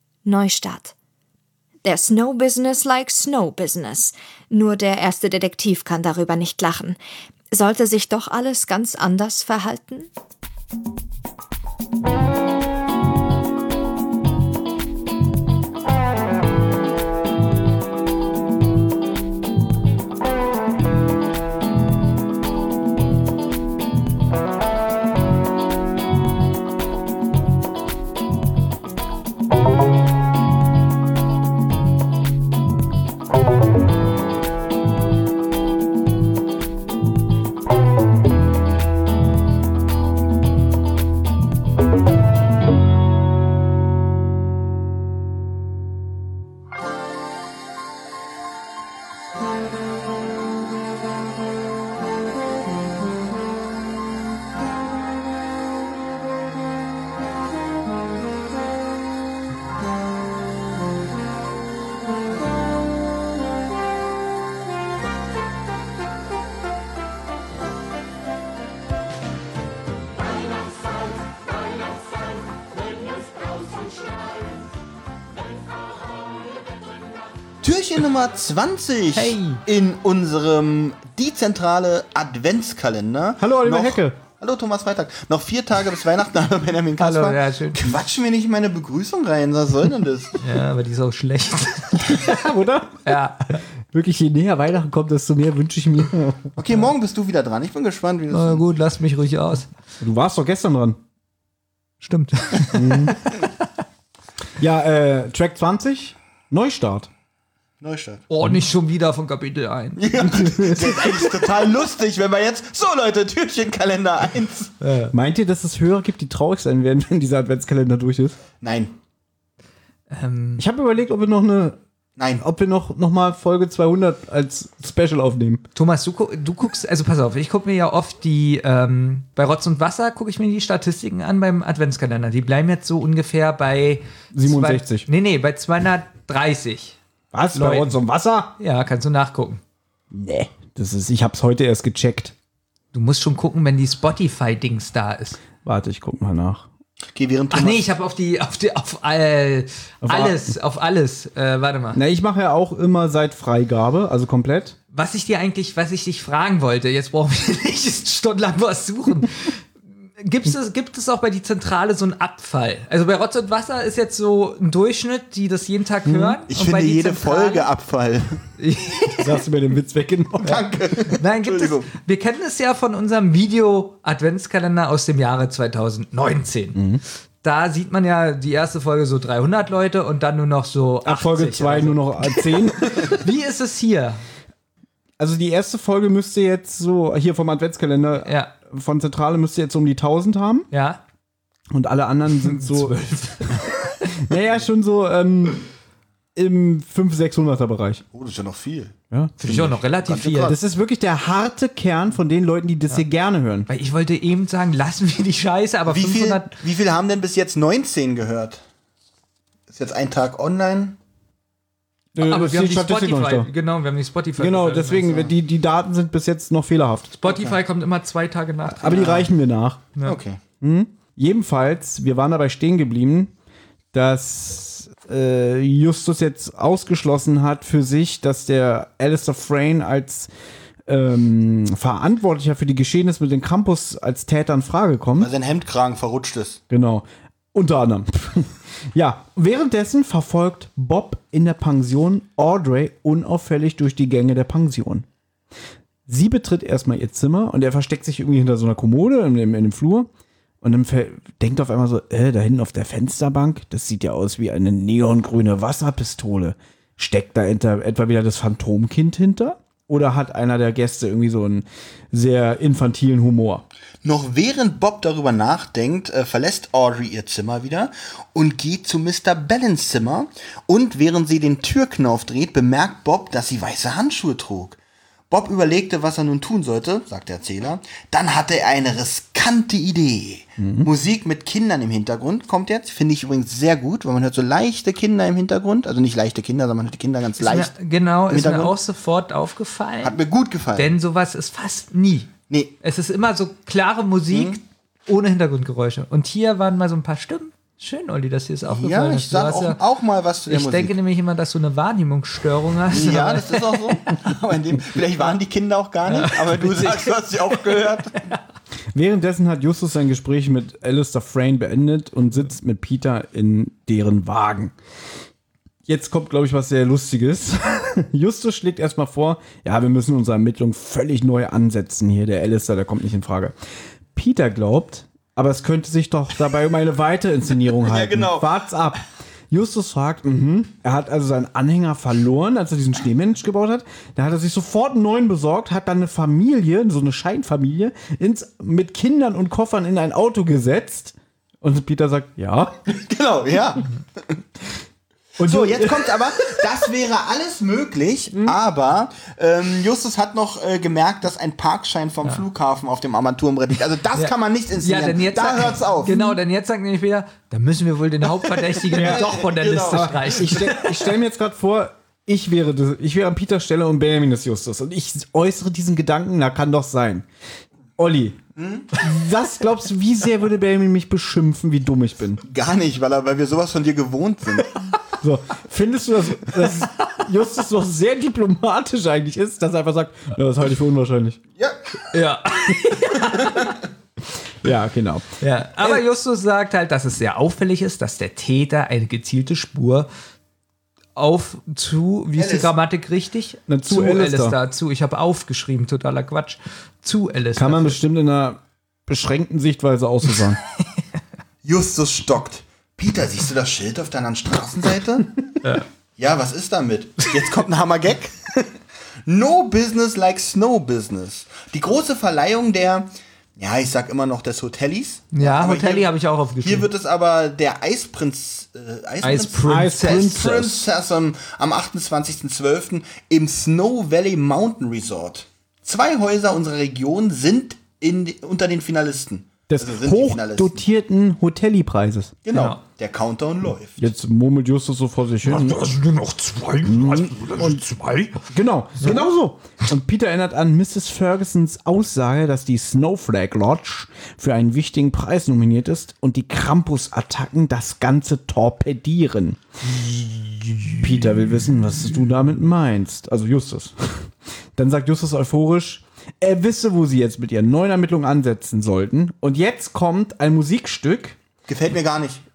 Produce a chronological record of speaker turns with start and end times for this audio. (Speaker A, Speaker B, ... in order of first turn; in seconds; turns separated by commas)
Speaker A: 0.2-0.9, Speaker A: 1.8-7.0, Speaker A: 7.5-10.1, Speaker B: 77.6-90.4, Speaker C: 79.1-79.6, Speaker D: 83.4-84.2, Speaker C: 87.0-87.9, Speaker C: 90.4-92.4, Speaker D: 92.1-93.2, Speaker C: 93.0-93.6, Speaker D: 93.9-96.5, Speaker B: 96.6-98.7, Speaker C: 98.3-99.7, Speaker D: 100.0-101.0, Speaker C: 102.0-103.7, Speaker D: 102.7-103.2, Speaker D: 104.6-107.1, Speaker B: 107.8-108.2, Speaker C: 108.3-110.0, Speaker B: 110.0-114.7, Speaker D: 110.2-111.4, Speaker C: 114.8-115.1, Speaker D: 115.1-118.4, Speaker B: 118.6-118.9, Speaker C: 120.1-120.6, Speaker D: 120.6-121.8, Speaker B: 122.2-122.4, Speaker D: 122.4-125.6, Speaker C: 125.7-137.0, Speaker D: 134.3-135.1, Speaker D: 137.3-138.5, Speaker C: 137.5-138.0, Speaker C: 138.6-139.6, Speaker D: 140.1-142.3, Speaker C: 142.9-145.4, Speaker D: 145.6-146.7, Speaker B: 147.1-147.8, Speaker C: 147.5-152.0, Speaker D: 150.0-150.5, Speaker D: 151.9-154.8, Speaker C: 154.9-159.7, Speaker C: 160.2-167.7, Speaker D: 166.0-166.4, Speaker B: 166.5-168.4, Speaker C: 168.6-169.4, Speaker D: 169.2-170.6, Speaker B: 170.4-171.9, Speaker C: 171.1-176.8, Speaker D: 176.7-177.0, Speaker C: 177.4-184.2, Speaker D: 181.0-183.2, Speaker D: 185.2-190.7, Speaker C: 188.2-188.5, Speaker C: 190.7-191.0, Speaker D: 191.7-193.0, Speaker C: 192.3-194.2, Speaker D: 194.1-195.7, Speaker D: 196.3-198.0, Speaker B: 198.1-198.9, Speaker D: 199.1-199.4, Speaker C: 199.4-200.6, Speaker B: 200.2-200.6, Speaker D: 200.4-203.7, Speaker C: 203.7-206.5, Speaker B: 205.9-208.6, Speaker B: 209.7-211.0, Speaker D: 212.1-213.5, Speaker C: 212.2-215.3, Speaker D: 214.4-217.2, Speaker C: 217.1-219.3, Speaker B: 217.3-217.6, Speaker D: 218.7-219.8, Speaker B: 220.0-220.4, Speaker D: 220.6-223.3, Speaker D: 223.9-230.3, Speaker D: 230.9-235.3, Speaker B: 235.2-236.6, Speaker D: 236.7-245.0, Speaker D: 246.1-250.1, Speaker D: 250.6-263.6, Speaker B: 264.0-274.8, Speaker B: 275.3-287.7, Speaker D: 280.6-280.9, Speaker C: 287.4-290.2, Speaker B: 288.3-288.7, Speaker B: 290.0-290.9, Speaker C: 290.7-292.3, Speaker B: 292.5-292.7, Speaker C: 292.8-299.8, Speaker B: 294.3-294.6, Speaker B: 298.7-300.9, Speaker C: 300.5-303.9, Speaker B: 302.9-308.2, Speaker C: 306.1-308.4, Speaker D: 308.9-314.7, Speaker D: 315.9-323.5, Speaker D: 324.1-342.7, Speaker B: 327.9-328.4, Speaker B: 342.9-344.4, Speaker D: 345.4-346.1, Speaker B: 345.4-356.1, Speaker C: 354.1-361.1, Speaker D: 356.1-356.3, Speaker D: 358.9-359.3, Speaker B: 358.9-360.2, Speaker D: 359.9-367.2, Speaker D: 368.0-368.4, Speaker B: 368.6-368.9, Speaker D: 368.9-372.4, Speaker B: 372.4-374.7, Speaker D: 375.2-381.4, Speaker B: 381.6-382.0, Speaker C: 382.1-383.8, Speaker D: 384.6-385.2, Speaker C: 385.4-390.1, Speaker D: 385.8-386.0, Speaker C: 391.1-398.0, Speaker B: 392.3-392.7, Speaker D: 393.7-394.6, Speaker D: 397.5-400.6, Speaker B: 401.6-405.6, Speaker B: 406.2-408.7, Speaker B: 409.2-430.8, Speaker C: 415.3-416.9, Speaker C: 419.2-420.4, Speaker D: 419.6-420.9, Speaker D: 429.7-432.4, Speaker B: 432.4-434.0, Speaker C: 432.5-432.8, Speaker D: 434.0-435.9, Speaker E: 435.4-438.4, Speaker D: 436.8-437.8, Speaker D: 438.5-449.6, Speaker D: 451.0-461.4, Speaker B: 461.6-462.4